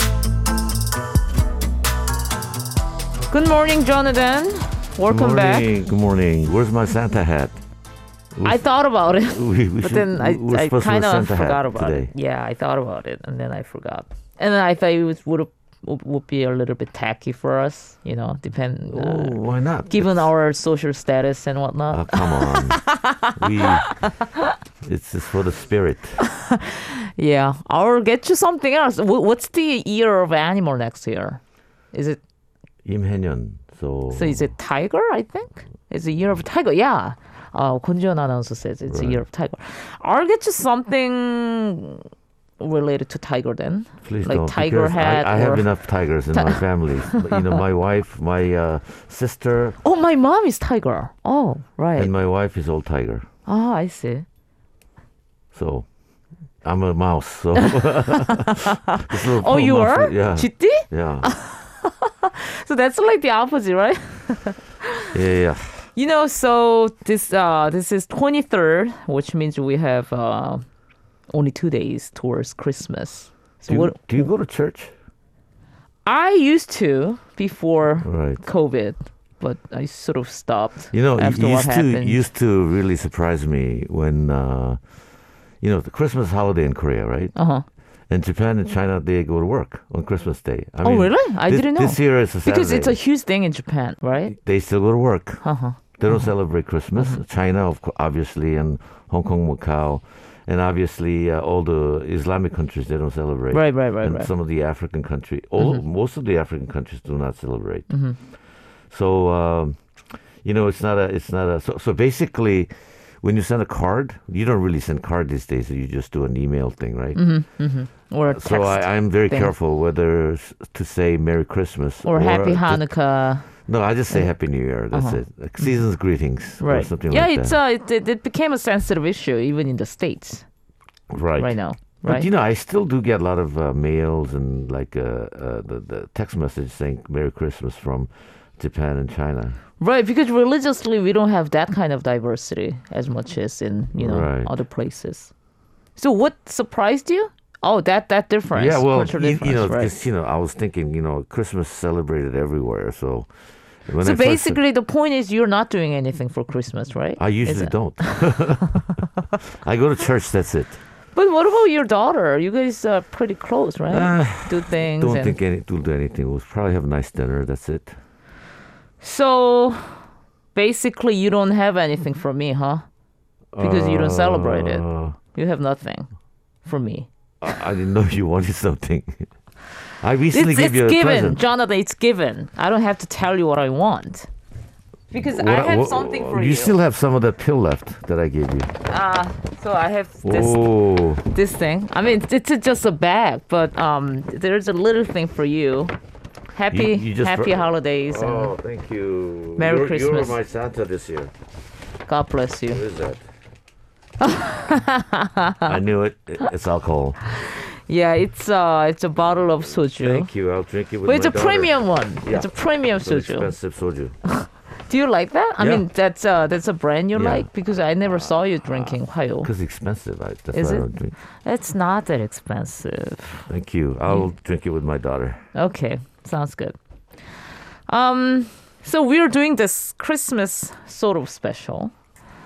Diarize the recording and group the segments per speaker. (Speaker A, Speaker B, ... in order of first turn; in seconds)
Speaker A: 3.3-5.7, 8.4-19.4, 19.9-24.5, 26.2-31.4, 31.9-32.2, 34.1-42.0, 42.6-45.7, 46.3-47.6, 49.8-52.1, 53.5-54.3, 57.7-65.1, 66.0-70.7, 71.3-74.3, 76.0-82.2, 87.3-87.7, 90.8-94.3, 95.4-96.3, 97.0-97.2, 103.5-104.3, 107.9-108.2, 117.2-119.5, 122.0-123.5, 124.9-125.8, 126.6-130.4, 131.4-132.3, 139.8-145.3, 146.0-149.9, 154.0-158.9, 161.1-165.4, 169.0-170.0, 170.6-172.8, 173.6-176.1, 176.7-177.1, 180.3-184.3, 185.1-186.8, 188.9-190.7, 191.2-195.9, 196.5-198.6, 199.6-200.4, 202.1-202.8, 204.2-205.8, 207.3-210.3, 211.1-213.5, 214.3-219.5, 220.5-220.9, 221.4-223.5, 225.6-226.8, 227.9-231.9
Speaker B: 5.1-7.6, 8.3-8.6, 9.2-12.1, 18.9-20.3, 21.9-22.8, 23.4-23.9, 24.8-26.2, 32.8-34.5, 38.9-39.2, 44.0-49.8, 52.0-53.3, 55.5-55.9, 56.6-61.3, 65.1-65.9, 73.7-74.9, 78.0-78.4, 80.9-84.8, 85.6-87.3, 88.1-93.0, 94.3-95.4, 96.0-107.9, 108.9-109.8, 110.4-117.2, 118.3-122.9, 123.6-127.5, 131.1-139.6, 144.0-144.5, 148.5-153.3, 153.9-154.6, 157.2-160.8, 163.9-168.0, 173.5-175.2, 177.4-179.3, 180.0-181.4, 185.1-188.7, 190.2-191.2, 196.7-201.3, 202.7-203.2, 205.7-207.2, 210.0-214.2, 215.6-215.9, 217.1-217.5, 219.4-221.2, 223.5-225.4